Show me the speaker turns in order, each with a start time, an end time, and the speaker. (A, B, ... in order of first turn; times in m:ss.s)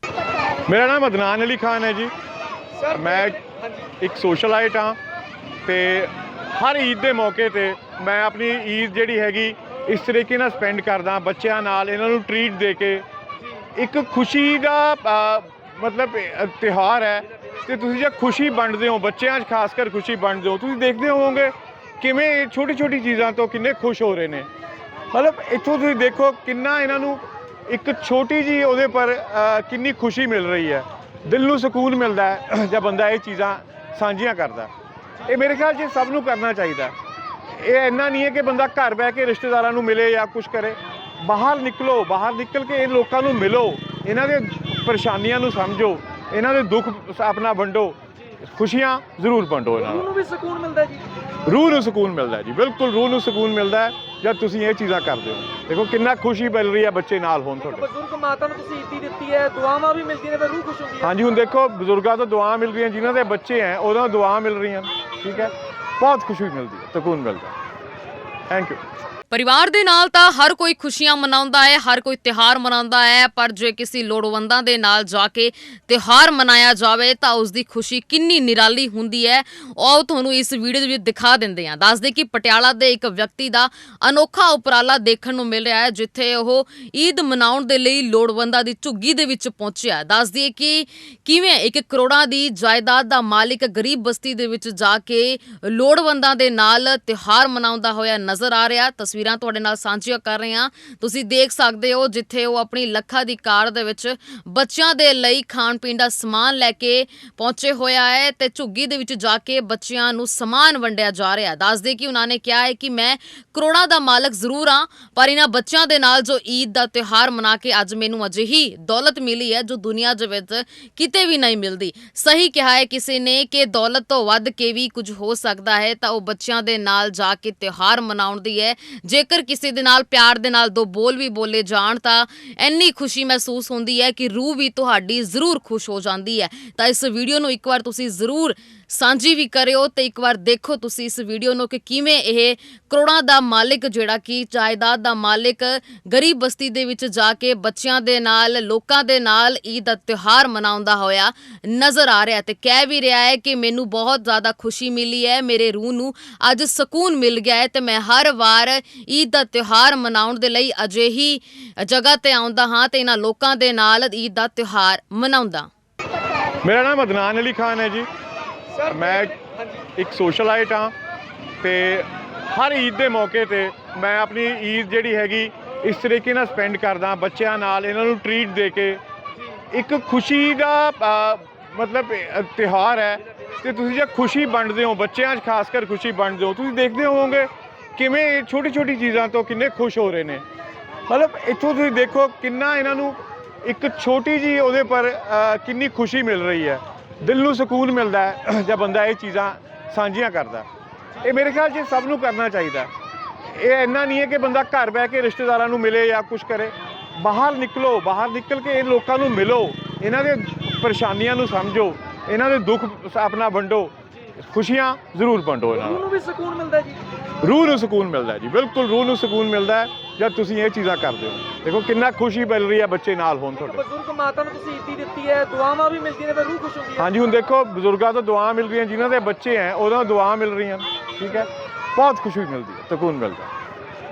0:00.7-0:02.1 A
0:02.8-0:03.6 B
0:02.9-0:03.4 A
0:04.0-0:05.0 A
0:05.6-0:13.0 A
0:13.7-0:24.5 A
0:25.1-0:34.7 A
0:35.2-0:36.9 A
0:37.5-0:50.1 A
0:49.8-0:51.1 B
0:51.4-0:57.9 A
0:57.7-1:01.1 B
1:01.0-1:07.5 A
1:08.5-1:08.8 A
1:09.3-2:45.7 C
2:46.6-2:48.1 A
2:48.7-2:49.8 B
2:48.9-2:49.3 A
2:50.0-2:50.9 A
2:51.6-2:59.0 A
2:59.7-3:10.4 A
3:11.1-3:20.7 A
3:21.2-3:22.9 A
3:23.4-3:36.1 A
3:35.8-3:37.0 B
3:37.4-3:43.8 A
3:43.6-3:47.1 B
3:47.0-3:53.5 A